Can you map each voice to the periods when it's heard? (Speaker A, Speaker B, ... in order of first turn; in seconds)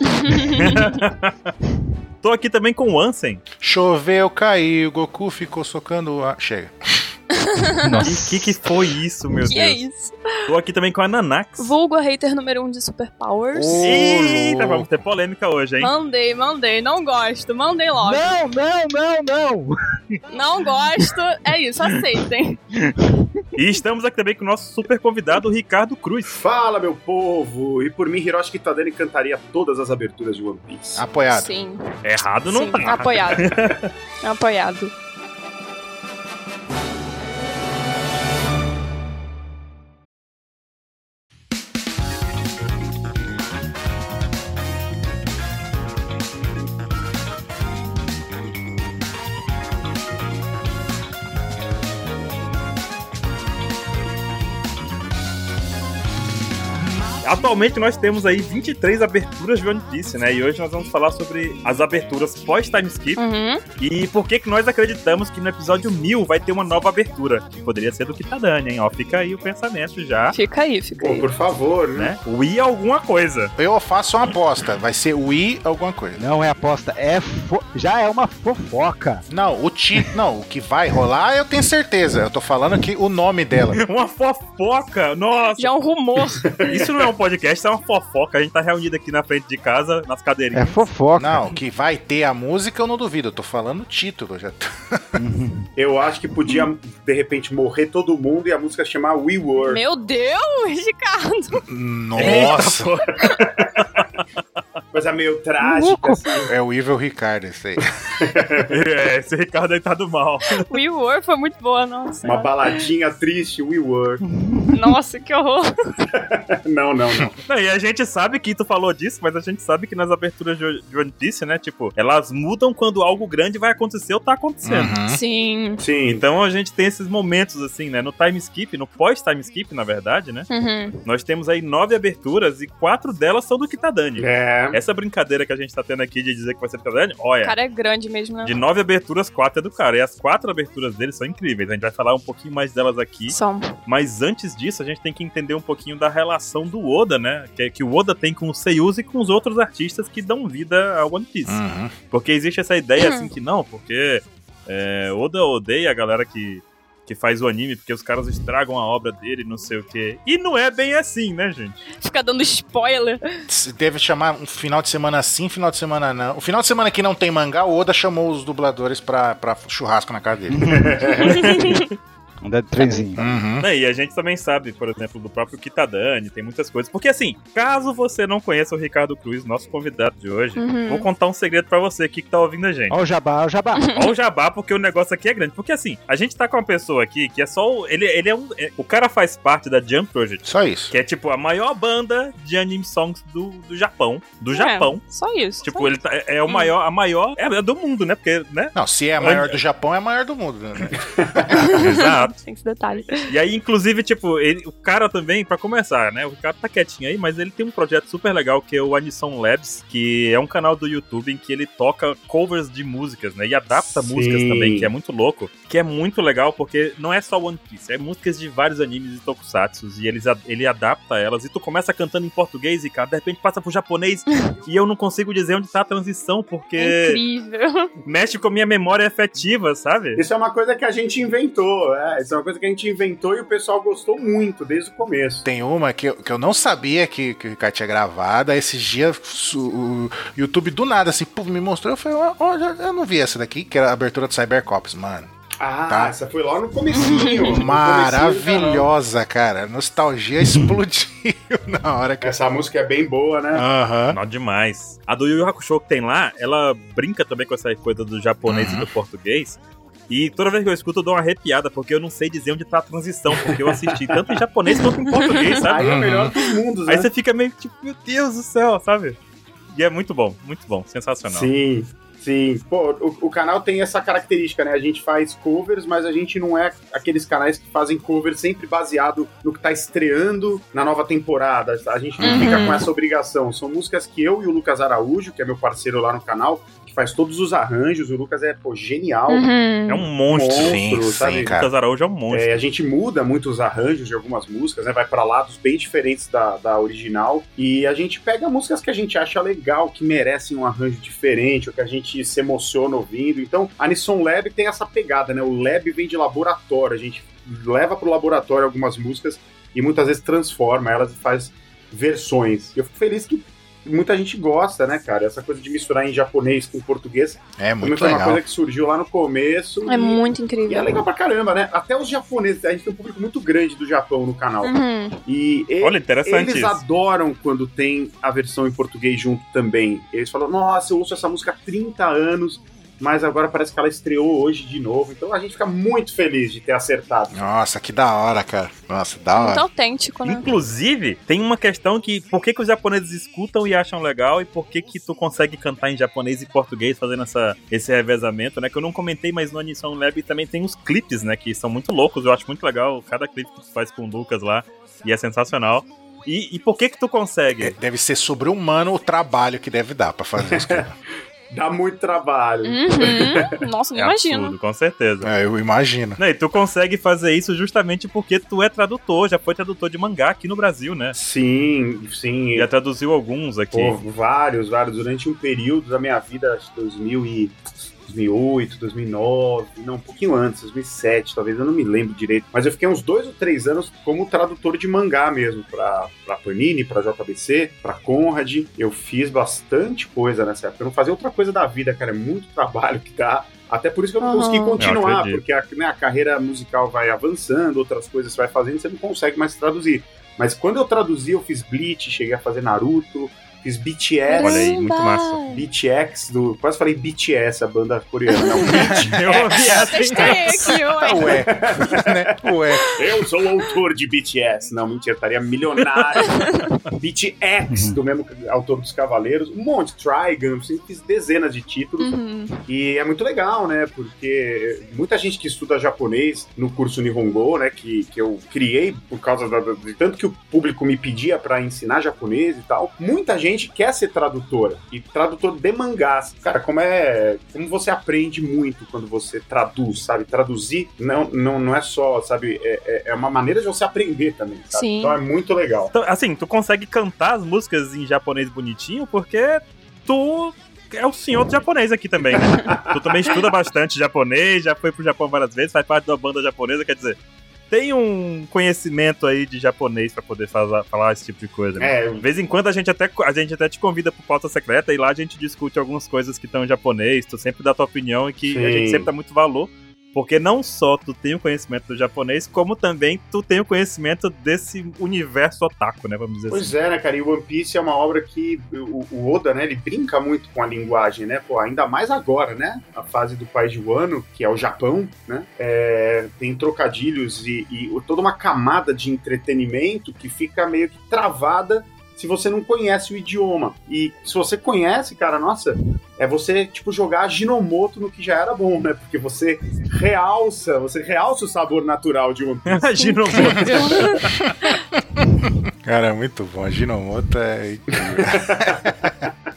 Speaker A: 0.1-0.9, 7.5-8.1, 9.5-10.2, 11.6-13.9, 15.8-18.3, 20.3-22.6, 31.3-31.9, 32.5-33.7, 34.2-34.9, 63.2-63.6, 70.3-71.3, 85.6-86.8, 99.6-101.6, 110.7-112.5, 114.7-115.7, 125.1-125.8, 130.5-130.9, 137.4-138.6, 143.3-143.7, 153.0-153.3, 161.9-163.2, 171.2-171.8, 172.8-173.1, 180.6-181.1, 183.8-184.1, 194.5-196.7, 201.6-203.3, 226.8-227.9, 247.0-247.6, 265.2-265.6, 282.2-282.8, 289.3-290.1, 319.9-320.9, 324.6-325.2, 339.3-340.5, 362.6-364.6, 394.2-394.8, 404.3-405.6, 408.3-411.4, 416.3-416.5, 422.0-422.6, 444.7-445.2, 503.0-504.2
Speaker B: 0.3-0.7, 7.8-8.6, 18.0-19.7, 76.2-79.2, 90.5-91.6, 95.2-95.7, 105.6-106.3, 114.3-114.9, 170.5-171.0, 172.4-173.4, 182.9-183.9, 250.4-250.7, 417.7-417.9
Speaker C: 0.5-1.5, 2.2-3.5, 8.0-9.8, 10.5-11.7, 13.8-15.9, 23.6-26.4, 32.0-33.9, 57.2-63.2, 63.8-70.3, 72.0-73.5, 83.8-85.7, 86.6-90.8, 102.2-104.2, 108.7-110.7, 117.5-125.0, 126.1-130.5, 131.0-137.6, 138.4-161.8, 171.2-171.8, 173.6-183.0, 183.9-195.0, 195.6-199.6, 201.8-202.3, 203.2-227.2, 228.0-230.2, 254.1-265.9, 266.9-269.2, 269.7-271.5, 289.9-292.6, 325.8-326.8, 340.2-357.8, 363.9-365.3, 366.2-371.1, 372.6-374.0, 394.8-395.4, 404.4-405.4, 408.9-410.8, 415.9-416.2, 445.9-457.2, 457.7-476.7, 502.7-504.4
Speaker D: 3.6-6.8, 13.5-14.9, 30.9-31.5, 73.6-76.2, 79.3-83.8, 91.2-95.2, 101.7-102.9, 106.5-107.8, 124.6-125.2, 151.4-151.9, 163.5-171.1, 173.2-173.7, 190.4-190.9, 198.8-201.8, 235.4-245.3, 245.9-246.1, 246.9-252.4, 253.5-254.2, 258.4-258.9, 265.8-266.3, 282.2-282.8, 290.6-291.7, 317.6-318.4, 337.3-339.6, 357.6-360.9, 365.2-366.2, 411.0-413.0, 504.5-509.1
Speaker E: 26.3-31.1, 71.0-72.2, 95.8-99.8, 103.2-103.8, 104.9-106.5, 108.1-108.7, 112.2-114.2, 116.1-117.3, 125.8-126.2, 134.2-134.8, 170.9-171.2, 201.2-201.4, 213.7-214.9, 230.2-235.4, 245.6-248.9, 252.2-253.6, 263.4-264.4, 265.6-267.1, 271.2-289.5, 290.3-291.4, 292.3-337.4, 360.4-360.9, 361.5-363.5, 371.1-372.7, 373.7-404.7, 405.5-410.4, 411.3-422.1, 422.6-445.9, 452.4-453.4, 461.8-462.2, 468.4-469.1, 476.5-502.9, 508.0-509.3